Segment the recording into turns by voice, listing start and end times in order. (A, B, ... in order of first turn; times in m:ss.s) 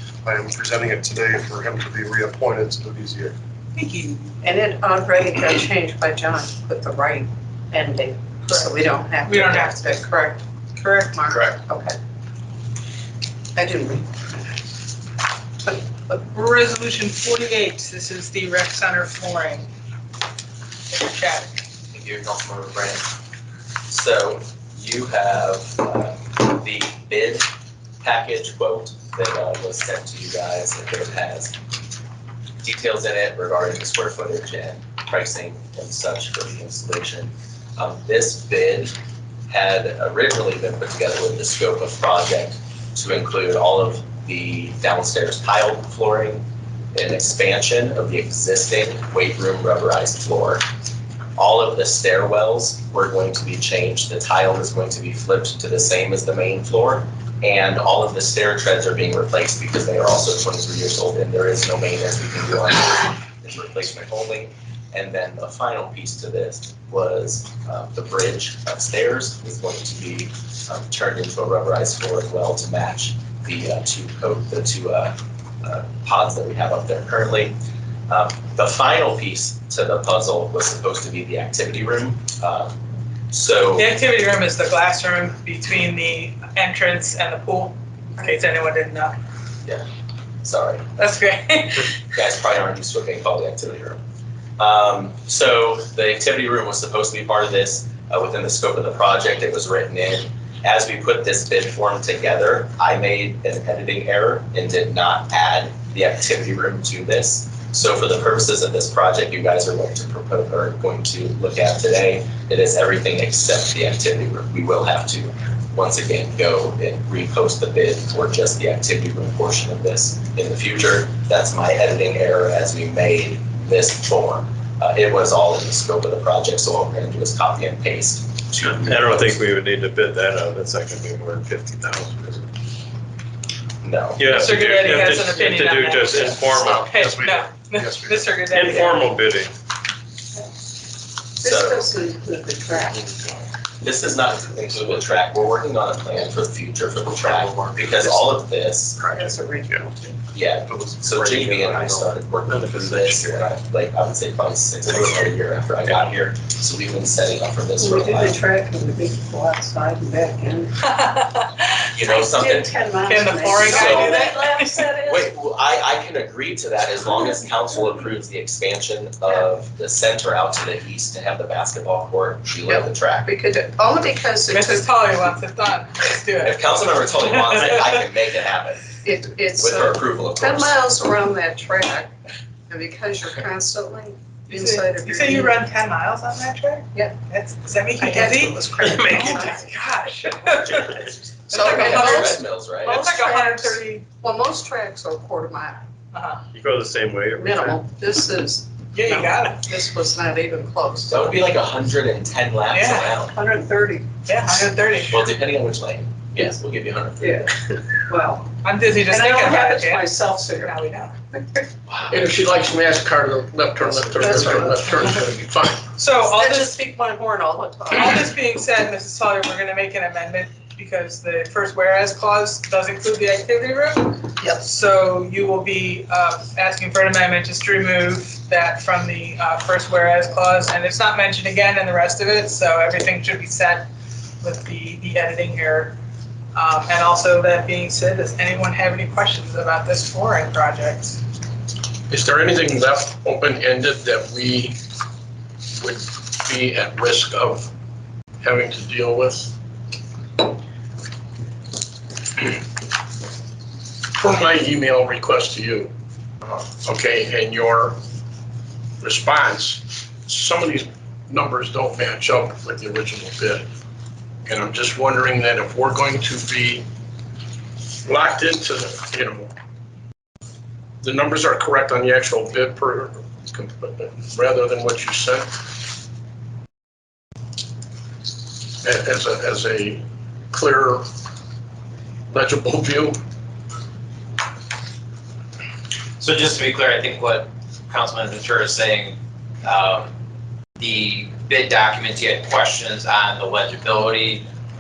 0:00.2-0:03.4 A
0:03.8-0:04.3 B
0:04.4-0:10.4 C
0:08.5-0:11.2 B
0:11.1-0:12.0 C
0:11.3-0:11.6 D
0:13.6-0:14.6 C
0:15.6-0:16.0 C
0:16.1-0:19.7 B
0:20.9-0:21.6 B
0:21.9-0:23.1 D
0:23.9-0:27.5 D
0:28.0-0:31.6 D
0:32.6-0:38.9 D
0:39.5-0:50.6 D
0:51.4-1:17.6 D
1:18.1-1:22.8 D
1:23.3-1:24.0 D
1:23.8-1:29.2 B
1:30.4-1:30.9 D
1:31.0-1:32.0 B
1:32.1-1:34.0 D
1:34.6-2:09.4 D
2:08.6-2:12.5 E
2:13.8-2:14.4 D
2:14.2-2:17.1 E
2:14.3-2:19.1 B
2:16.6-2:18.2 A
2:18.5-2:19.5 E
2:21.4-2:23.1 C
2:21.4-2:21.9 D
2:23.8-2:29.0 D
2:27.2-2:28.3 A
2:29.0-2:29.8 A
2:29.1-2:30.2 C
2:30.3-2:38.4 D
2:30.6-2:32.7 A
2:32.5-2:33.5 E
2:37.8-2:40.8 C
2:40.9-2:41.7 B
2:41.9-2:42.8 D
2:42.0-2:45.3 C
2:43.1-2:44.8 B
2:43.6-2:44.2 D
2:45.0-2:53.4 D
2:52.6-2:54.9 C
2:54.5-2:58.0 B
2:56.4-2:59.0 D
2:59.0-3:02.1 C
2:59.5-3:00.9 D
3:02.7-3:05.6 C
3:04.5-3:14.0 B
3:08.0-3:09.7 C
3:11.5-3:15.8 C
3:11.6-3:13.0 D
3:16.1-3:16.4 B
3:16.5-3:17.8 E
3:17.4-3:21.4 C
3:18.9-3:19.6 B
3:21.1-3:23.4 D
3:22.7-3:23.2 B
3:23.3-3:24.1 C
3:24.3-3:25.2 B
3:25.1-3:27.5 D
3:27.2-3:28.5 C
3:28.6-3:31.1 B
3:29.1-3:30.8 C
3:31.3-3:31.6 C
3:31.9-3:32.3 D
3:32.1-3:35.9 F
3:33.8-3:35.2 C
3:36.0-3:36.8 B
3:36.2-3:38.3 C
3:37.9-3:53.9 B
3:54.4-3:56.0 B
3:56.6-4:01.2 B
4:02.1-4:04.8 F
4:05.8-4:07.7 F
4:08.4-4:09.5 F
4:12.4-4:12.6 F
4:14.1-4:15.9 F
4:16.8-4:18.0 F
4:19.0-4:23.7 F
4:24.5-4:26.9 F
4:28.0-4:29.5 F
4:31.0-4:35.7 F
4:38.8-4:41.1 F
4:42.3-4:43.2 F
4:46.2-4:50.1 G
4:50.8-4:54.5 G